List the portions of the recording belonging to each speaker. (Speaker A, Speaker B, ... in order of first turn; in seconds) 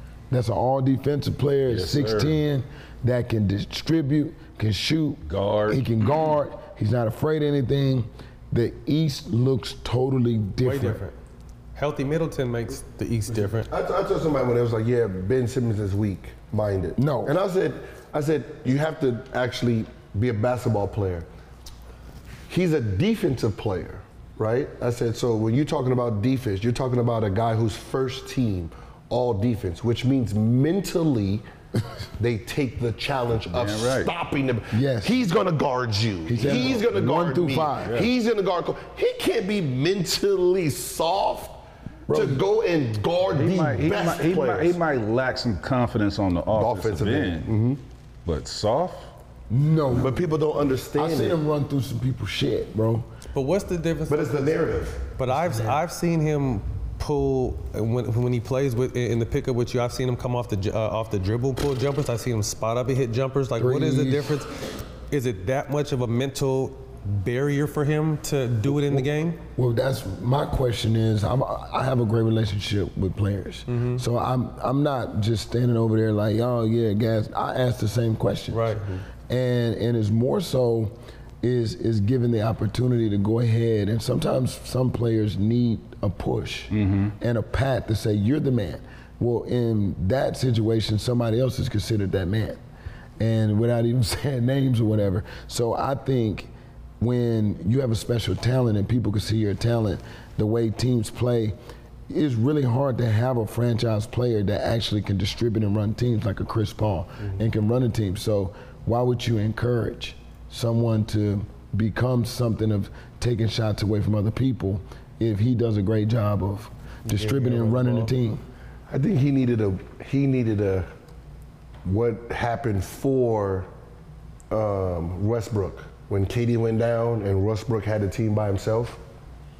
Speaker A: 0.3-11.0, 17.0-17.3, 34.7-35.2, 36.3-38.0, 42.1-42.4, 49.5-50.1, 50.9-53.1, 63.6-64.4, 69.5-92.6, 93.2-101.5, 102.1-118.4
Speaker B: 1.7-2.4, 5.2-6.1, 33.5-34.1, 37.8-38.1, 43.3-47.5, 48.2-49.1, 86.7-87.1
Speaker C: 10.6-11.1, 11.8-13.7, 53.3-54.5, 55.2-64.5, 65.1-69.4, 73.7-74.0, 78.5-79.0, 117.7-118.0
Speaker D: 13.3-21.3, 22.5-31.4, 32.2-44.8, 46.5-47.8, 50.0-51.4, 54.1-55.1, 118.9-120.9, 121.8-123.7, 124.5-129.0